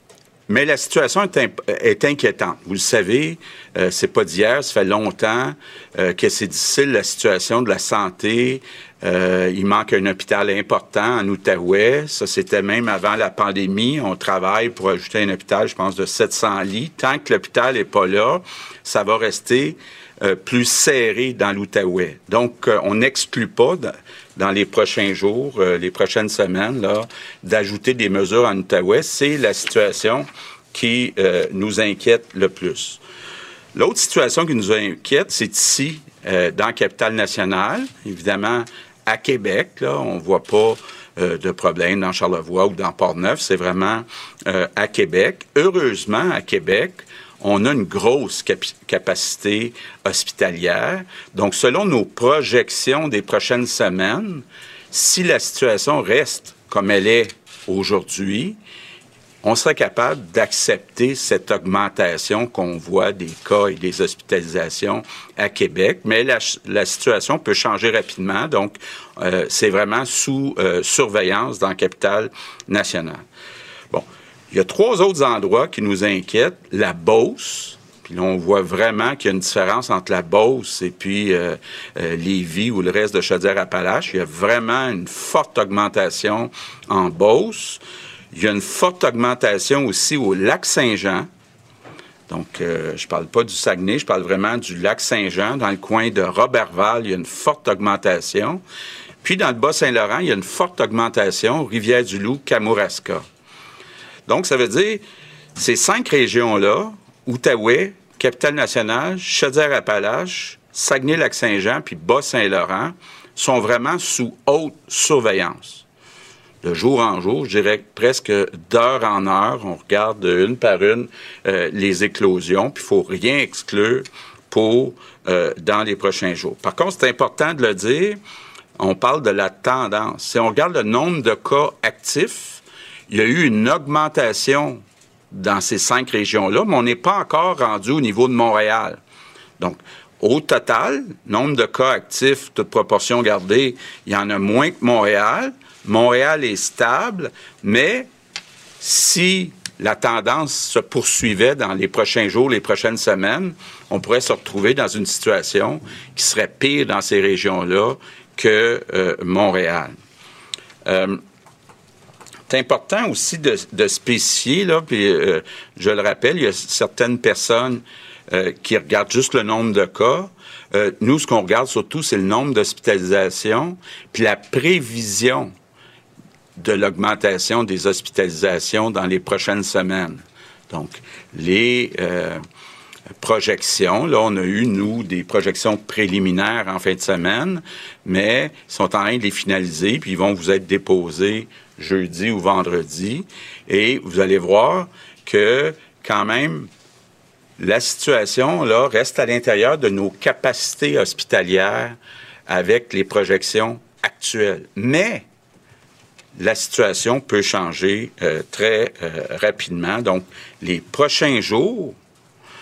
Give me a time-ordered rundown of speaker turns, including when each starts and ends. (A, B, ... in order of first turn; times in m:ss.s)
0:00.5-0:33.0 A
0:33.8-0:58.6 A
0:59.4-1:13.2 A
1:13.9-1:31.3 A
1:32.3-1:38.6 A
1:39.2-1:43.2 A
1:44.3-1:55.8 A
1:56.6-2:08.2 A
2:08.8-2:19.0 A
2:19.6-2:28.1 A
2:28.8-2:40.0 A
2:40.9-2:41.2 A
2:42.5-2:55.5 A
2:56.6-3:02.4 A
3:03.2-3:16.7 A
3:17.6-3:22.0 A
3:22.5-3:25.3 A
3:26.4-3:32.0 A